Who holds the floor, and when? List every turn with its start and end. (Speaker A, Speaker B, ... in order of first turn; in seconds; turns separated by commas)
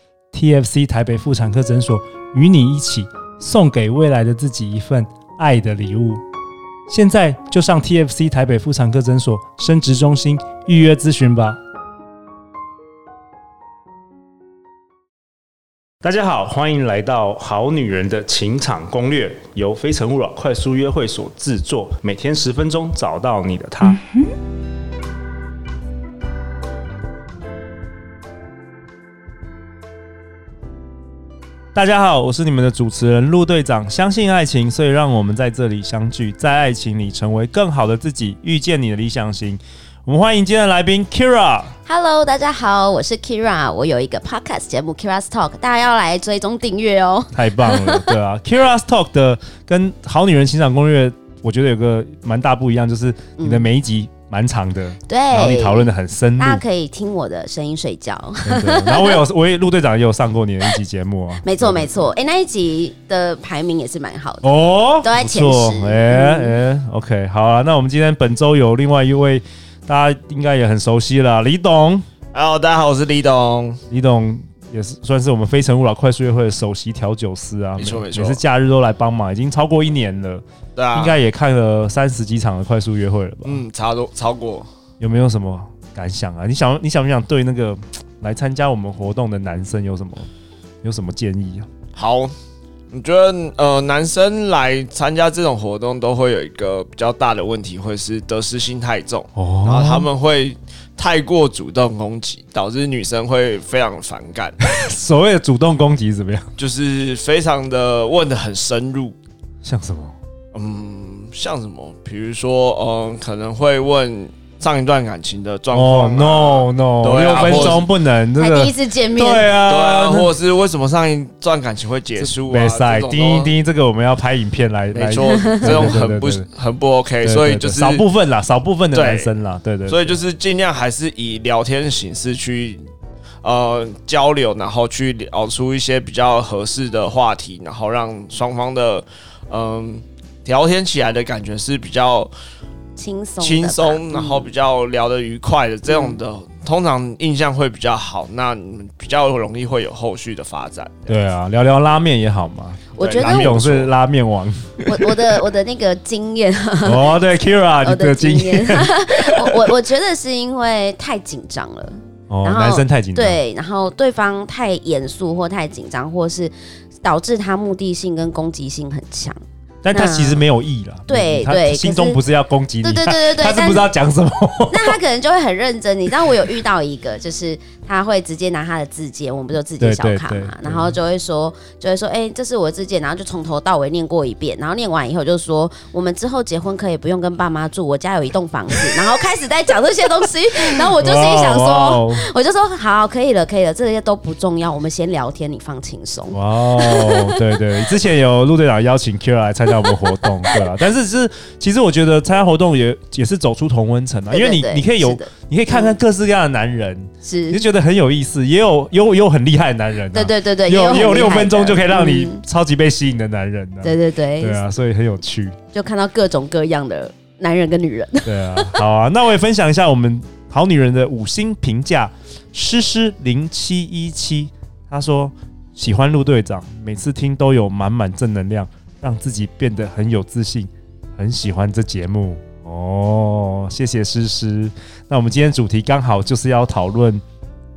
Speaker A: 0.3-6.2, Speaker A: 6.9-11.6, Speaker A: 16.0-24.2, Speaker A: 31.7-41.7, Speaker B: 41.9-48.1, Speaker A: 47.3-56.6, Speaker B: 53.4-53.7, Speaker B: 55.1-59.2, Speaker A: 58.4-61.9, Speaker B: 61.4-64.5, Speaker A: 64.4-72.1, Speaker B: 65.0-66.6, Speaker C: 72.3-73.8, Speaker A: 73.9-83.6, Speaker C: 77.8-78.4, Speaker C: 80.8-81.2, Speaker C: 83.4-84.7, Speaker A: 85.0-90.3, Speaker A: 90.8-91.7, Speaker C: 91.9-92.3, Speaker C: 92.9-104.6, Speaker A: 99.3-100.1, Speaker A: 104.6-106.5, Speaker C: 106.6-109.2, Speaker A: 109.6-110.2, Speaker C: 110.5-117.9, Speaker A: 115.7-120.3, Speaker B: 117.3-117.8, Speaker B: 118.4-119.6, Speaker C: 119.6-123.5, Speaker A: 122.2-126.5, Speaker C: 124.9-128.0, Speaker B: 125.2-126.0, Speaker A: 127.2-130.1, Speaker C: 128.9-129.3, Speaker C: 129.9-132.8, Speaker C: 133.4-142.3, Speaker B: 143.0-144.5, Speaker C: 143.4-151.2, Speaker B: 145.9-146.2, Speaker A: 151.1-155.1, Speaker B: 153.0-153.6, Speaker C: 153.0-153.9, Speaker B: 154.9-169.4, Speaker A: 156.8-159.7, Speaker A: 162.3-163.4, Speaker A: 169.8-175.0, Speaker B: 169.9-170.4, Speaker B: 171.1-172.2, Speaker B: 172.8-173.9, Speaker B: 174.7-197.6, Speaker A: 179.8-181.0, Speaker A: 190.5-192.2, Speaker A: 196.3-215.6, Speaker B: 199.9-200.6, Speaker B: 204.3-206.0, Speaker B: 207.2-207.6, Speaker B: 210.1-212.4, Speaker B: 213.8-214.6, Speaker B: 215.7-218.8, Speaker A: 218.2-237.2